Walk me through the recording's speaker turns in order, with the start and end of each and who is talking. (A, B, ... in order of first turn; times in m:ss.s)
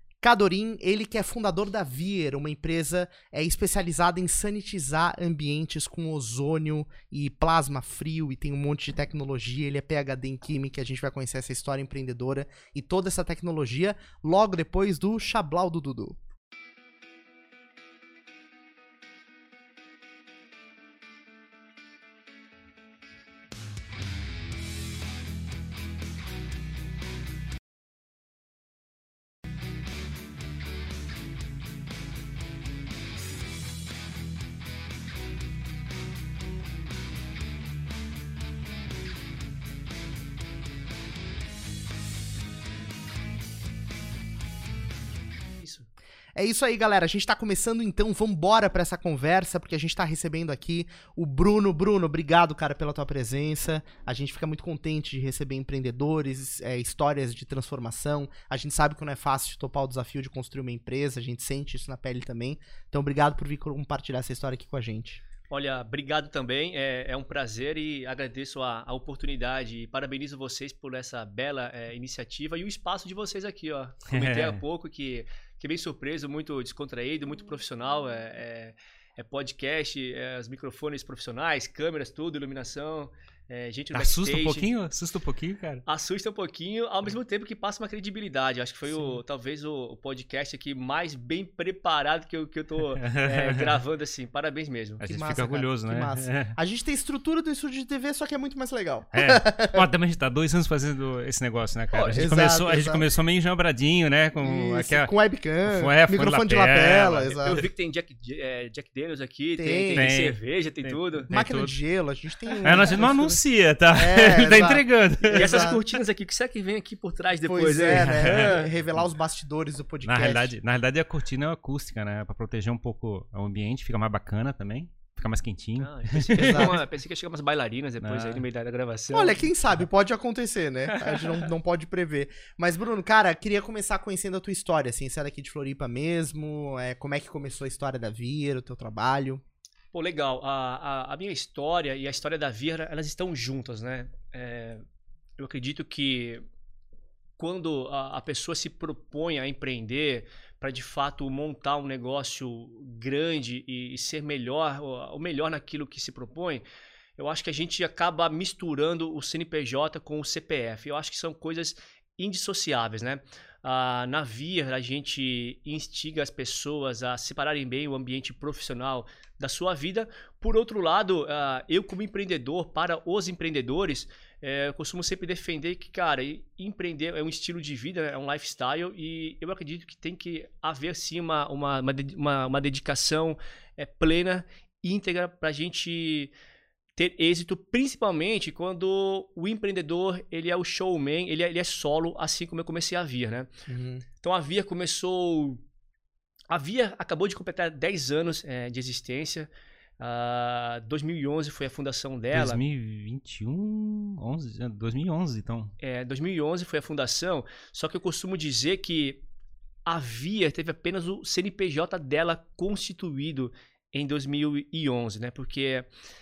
0:00.2-0:16.2 A
0:45.6-0:45.8 B
0:46.3-1:05.2 A
1:05.5-1:24.7 B
1:14.1-1:14.6 C
1:23.9-1:25.8 C
1:25.8-1:35.0 B
1:28.9-1:29.2 A
1:33.0-1:33.8 C
1:35.0-1:36.5 C
1:35.1-1:39.8 A
1:39.1-1:45.1 C
1:41.9-1:42.4 B
1:42.1-1:43.0 A
1:44.4-1:47.6 A
1:45.7-1:47.6 C
1:47.4-1:51.3 B
1:49.6-1:50.1 A
1:49.9-1:51.8 C
1:51.3-1:53.4 A
1:52.6-1:55.7 C
1:53.9-1:55.8 A
1:55.3-1:58.7 B
1:57.5-2:00.5 A
1:57.8-1:58.6 C
2:00.0-2:06.7 C
2:05.8-2:09.5 B
2:06.4-2:06.7 A
2:08.0-2:08.4 C
2:09.1-2:19.4 A
2:19.9-2:24.8 B
2:25.4-2:26.4 B
2:27.4-2:36.6 B
2:37.2-3:06.3 B
3:07.0-3:13.5 B
3:13.7-3:14.0 A
3:14.2-3:15.6 B
3:16.5-3:22.6 B
3:22.3-3:25.7 C
3:25.8-3:29.2 B
3:29.8-3:35.9 B